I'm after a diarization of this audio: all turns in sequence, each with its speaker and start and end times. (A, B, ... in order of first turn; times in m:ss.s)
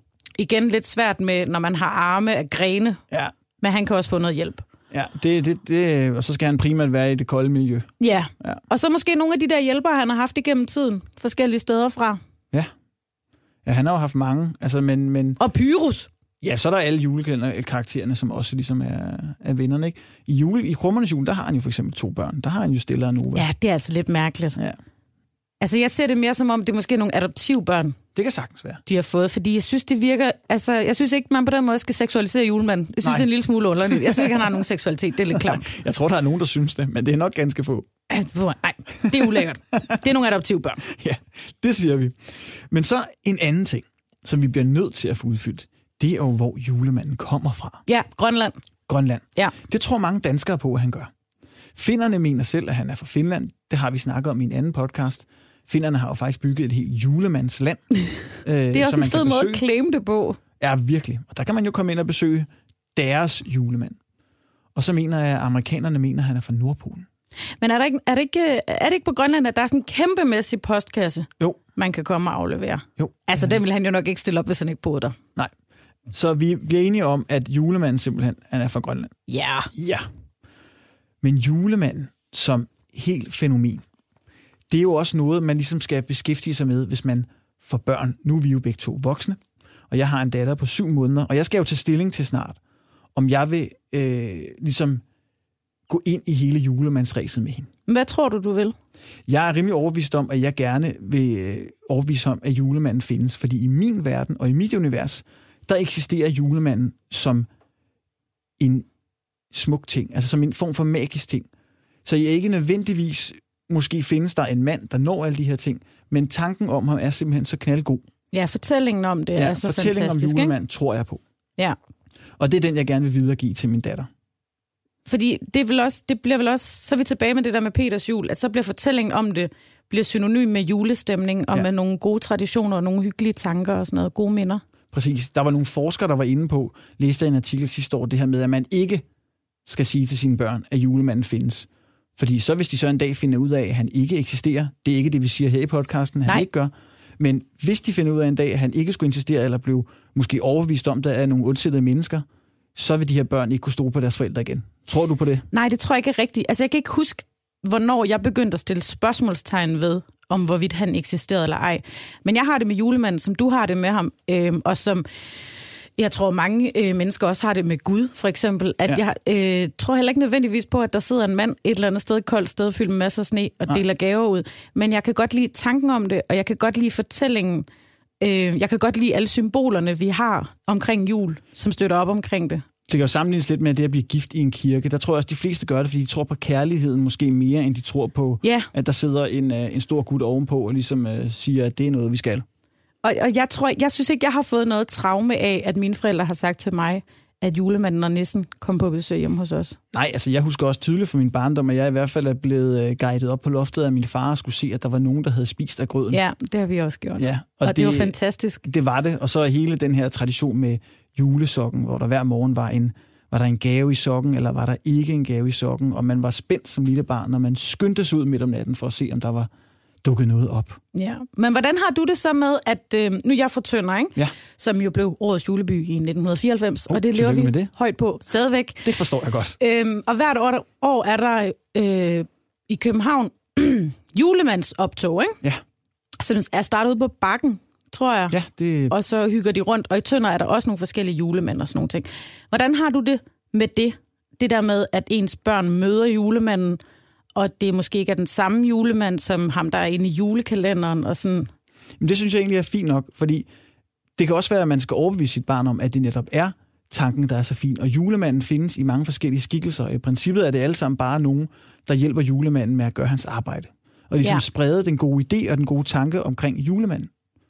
0:00.4-0:03.0 A
0:03.6-0:04.6 A
0:04.9-0:08.6 B
0:08.0-0:12.2 A
0:13.6-0:15.4 B
0:15.4-0:16.1 A
0:16.4-0:23.5 B
0:23.3-0:24.6 A
0:25.6-0:28.0 A
0:28.1-0:28.8 B
0:28.8-0:35.7 A
0:33.9-0:34.4 B
0:35.3-0:37.9 B
0:38.1-0:40.8 A
0:40.9-0:47.8 B
0:47.9-0:48.6 A
0:48.9-0:51.1 B
0:51.8-0:57.8 B
0:58.4-0:59.6 B
0:58.7-1:00.4 A
1:00.6-1:04.0 B
1:04.7-1:07.1 B
1:07.6-1:15.2 A
1:13.0-1:13.5 B
1:16.1-1:19.1 B
1:19.3-1:19.7 A
1:19.7-1:20.0 B
1:21.2-1:23.8 B
1:24.7-1:29.4 B
1:29.9-1:32.6 B
1:33.1-1:35.0 B
1:35.9-1:37.7 B
1:37.9-1:38.7 A
1:39.3-1:47.5 B
1:48.6-1:48.9 B
1:49.5-1:51.5 B
1:52.0-1:58.0 B
1:58.3-2:00.5 A
1:59.4-2:01.2 B
2:02.4-2:04.1 B
2:05.1-2:14.6 A
2:14.9-2:19.0 B
2:19.6-2:35.4 B
2:35.5-2:45.0 A
2:46.0-2:57.7 A
2:58.2-3:02.6 A
3:02.9-3:12.4 B
3:08.4-3:08.7 A
3:13.0-3:19.8 A
3:19.9-3:26.2 B
3:26.1-3:28.6 A
3:27.2-3:39.5 B
3:40.0-3:40.8 B
3:40.9-3:48.9 A
3:46.9-3:47.7 B
3:48.8-3:49.6 B
3:49.6-3:55.4 A
3:56.2-3:58.3 A
3:58.3-3:58.9 B
3:58.9-4:06.8 A
4:07.3-4:11.5 A
4:12.0-4:13.5 B
4:14.2-4:27.1 B